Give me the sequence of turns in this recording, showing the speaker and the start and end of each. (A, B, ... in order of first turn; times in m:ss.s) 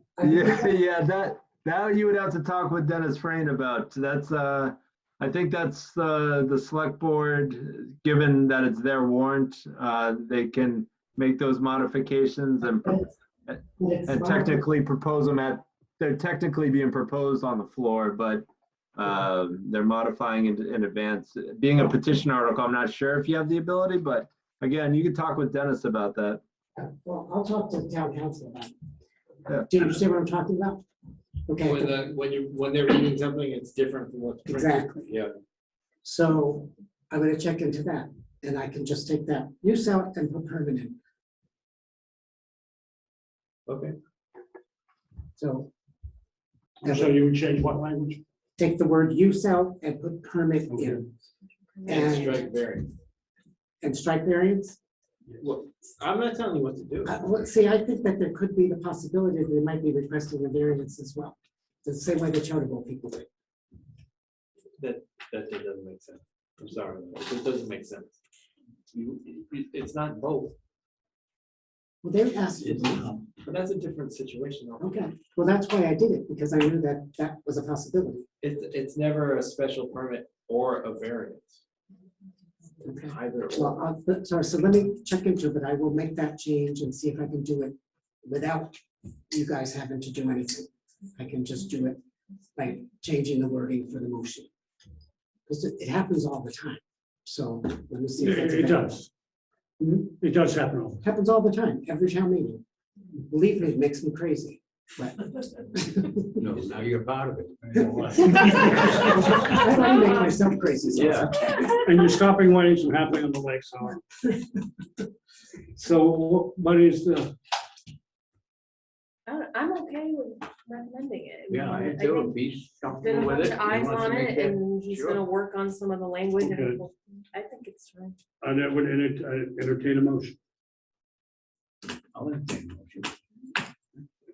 0:00.2-0:00.8 A
0:00.2-0:13.0 B
0:13.8-0:14.6 A
0:14.1-0:26.4 B
0:26.8-0:28.7 A
0:29.6-0:30.8 A
0:31.5-0:31.9 A
0:31.6-0:35.3 C
0:34.5-0:35.1 A
0:36.0-0:41.0 A
0:43.7-0:44.0 C
0:45.4-0:45.7 A
0:46.8-0:48.2 D
0:46.8-0:47.2 A
0:48.6-0:51.1 A
0:50.7-0:51.0 D
0:51.8-0:52.1 E
0:51.8-0:52.4 A
0:51.9-0:52.9 C
0:53.8-0:54.8 A
0:55.4-0:57.2 C
0:57.0-1:03.3 A
1:04.8-1:08.2 C
1:08.9-1:10.6 C
1:12.0-1:13.1 A
1:12.6-1:13.3 F
1:13.4-1:15.1 C
1:14.8-1:18.2 A
1:18.4-1:21.6 C
1:22.8-1:32.0 A
1:23.0-1:23.8 C
1:32.6-1:34.5 A
1:35.5-1:38.9 A
1:38.2-1:39.1 D
1:39.8-1:40.1 A
1:39.9-1:41.0 D
1:41.0-1:42.6 A
1:43.3-1:46.4 A
1:46.4-1:49.0 F
1:47.8-1:48.5 D
1:48.3-1:51.7 A
1:49.8-1:50.4 E
1:50.9-1:51.3 F
1:51.5-1:51.8 E
1:51.8-1:54.0 D
1:55.8-1:57.3 D
1:59.3-2:02.4 E
2:01.5-2:05.2 F
2:03.0-2:08.2 E
2:06.4-2:06.8 D
2:08.4-2:10.4 D
2:12.1-2:13.2 F